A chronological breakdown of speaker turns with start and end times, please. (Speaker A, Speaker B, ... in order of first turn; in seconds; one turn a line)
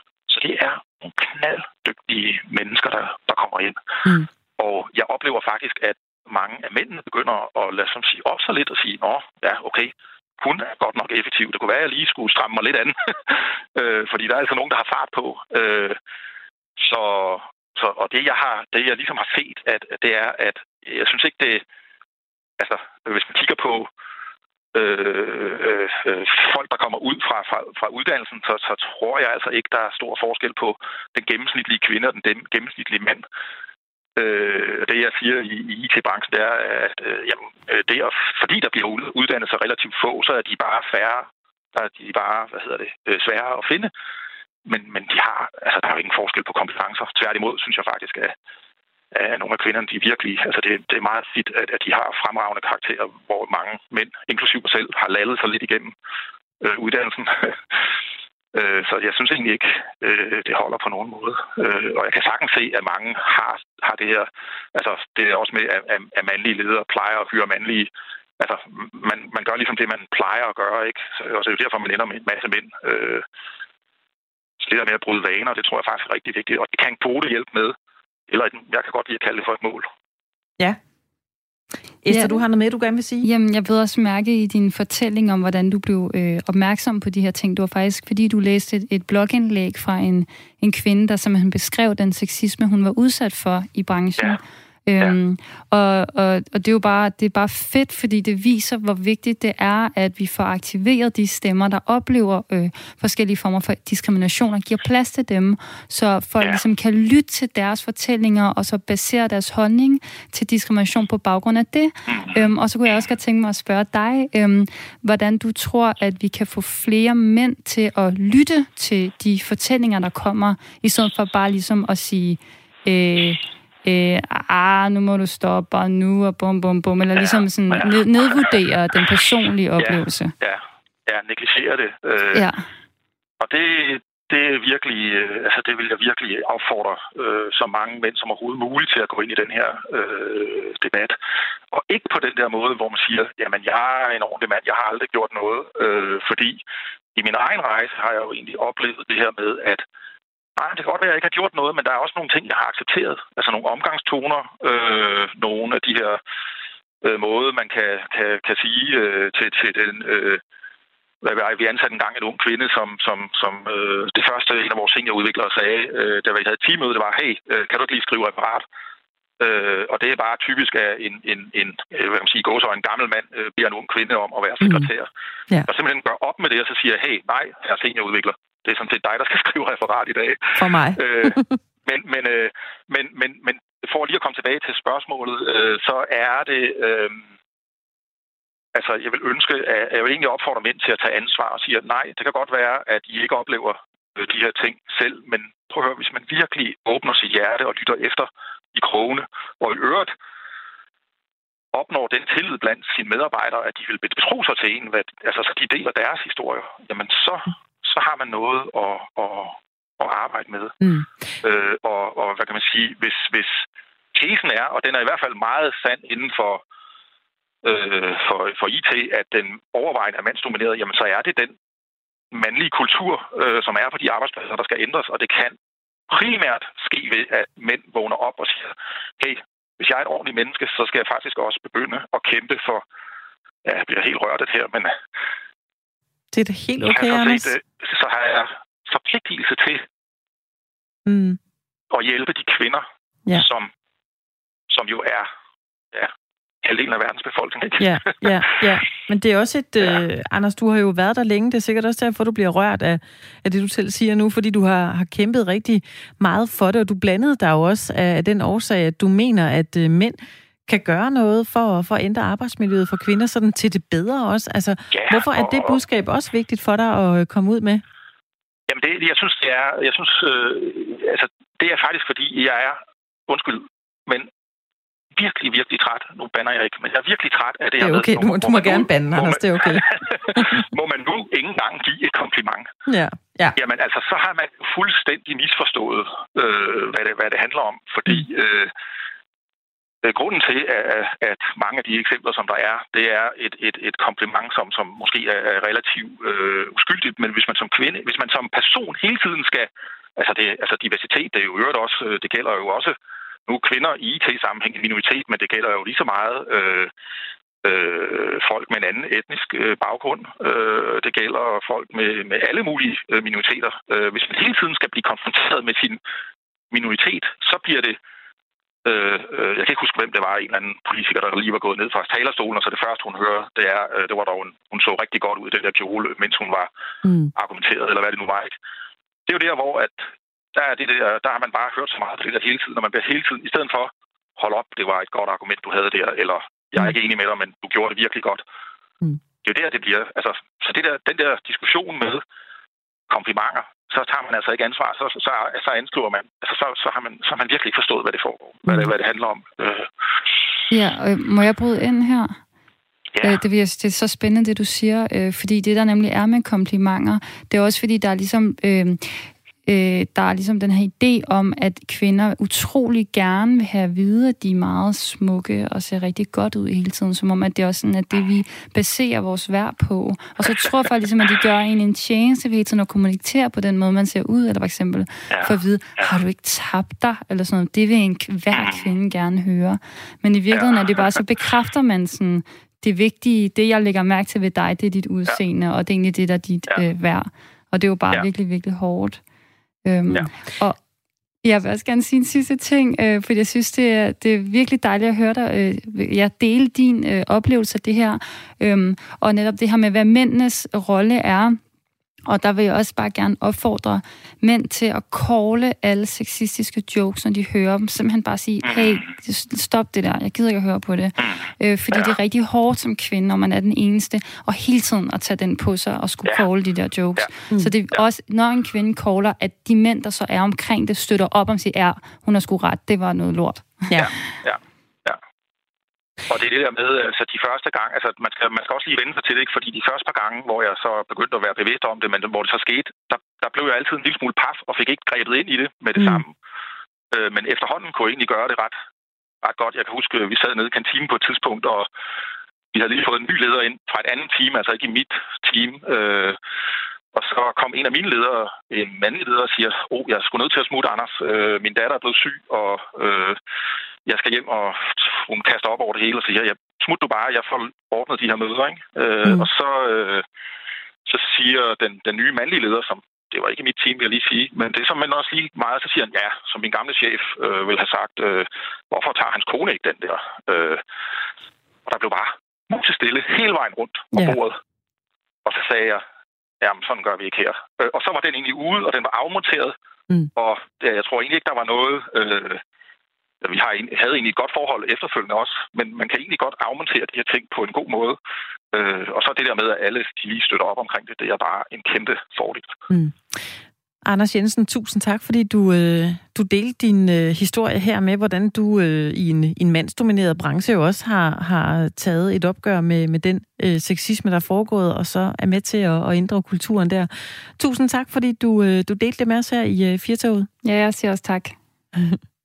Speaker A: 0.3-3.8
Speaker A: 4.6-16.0
Speaker A: 16.8-21.6
Speaker A: 22.6-23.9
Speaker A: 24.7-33.2
Speaker A: 34.2-43.9
Speaker A: 44.7-48.3
Speaker A: 49.1-55.9
Speaker A: 56.6-57.8
Speaker A: 58.5-73.2
Speaker A: 74.6-77.8
Speaker A: 78.3-79.9
Speaker B: 82.0-83.3
Speaker C: 82.1-82.4
Speaker C: 83.2-130.3
Speaker A: 112.1-112.4
Speaker A: 127.2-128.0
Speaker A: 129.8-132.4
Speaker C: 132.3-132.6
Speaker A: 133.4-141.2
Speaker A: 141.7-146.6
Speaker A: 147.2-149.8
Speaker A: 150.6-156.2
Speaker A: 157.0-160.4
Speaker A: 161.2-168.6
Speaker A: 169.4-175.1
Speaker B: 174.6-174.9
Speaker A: 175.7-187.2
Speaker B: 180.6-181.6
Speaker A: 188.7-200.1
Speaker A: 201.7-210.8
Speaker B: 210.8-211.1
Speaker A: 211.4-216.6
Speaker A: 217.6-221.6
Speaker A: 222.3-225.6
Speaker A: 226.1-232.8
Speaker A: 233.6-234.9
Speaker B: 236.3-237.5
Speaker A: 236.9-239.8
Speaker B: 241.1-241.4
Speaker A: 241.9-243.7
Speaker A: 244.7-245.3
Speaker A: 246.6-248.3
Speaker B: 247.8-267.8
Speaker A: 264.9-265.8
Speaker A: 268.7-274.3
Speaker A: 275.1-282.7
Speaker B: 277.8-280.6
Speaker B: 282.9-283.6
Speaker A: 283.6-288.7
Speaker A: 290.0-302.9
Speaker A: 303.5-306.9
Speaker A: 307.6-316.0
Speaker A: 316.7-317.9
Speaker A: 318.9-326.7
Speaker B: 327.0-327.3
Speaker A: 327.4-328.5
Speaker A: 329.3-330.0
Speaker A: 330.6-338.4
Speaker A: 339.4-342.2
Speaker A: 343.1-349.9
Speaker C: 350.7-352.4
Speaker A: 353.1-353.4
Speaker C: 353.2-389.2
Speaker A: 375.3-376.1
Speaker A: 378.5-378.9
Speaker A: 380.5-381.2
Speaker C: 389.9-390.8
Speaker C: 391.4-401.6
Speaker C: 402.3-423.9
Speaker A: 408.6-409.1
Speaker A: 411.2-412.1
Speaker A: 424.0-425.2
Speaker A: 426.3-436.3
Speaker B: 436.0-436.2
Speaker A: 437.1-438.8
Speaker A: 439.4-441.9
Speaker A: 442.7-446.4
Speaker A: 447.1-453.4
Speaker A: 454.1-460.2
Speaker A: 461.1-470.8
Speaker A: 471.9-474.6
Speaker B: 474.1-474.4
Speaker A: 475.4-476.0
Speaker A: 476.6-479.8
Speaker A: 480.4-482.6
Speaker A: 483.4-488.2
Speaker A: 488.7-492.8
Speaker B: 492.9-493.5
Speaker B: 494.1-510.5
Speaker C: 510.6-511.6
Speaker B: 511.9-512.2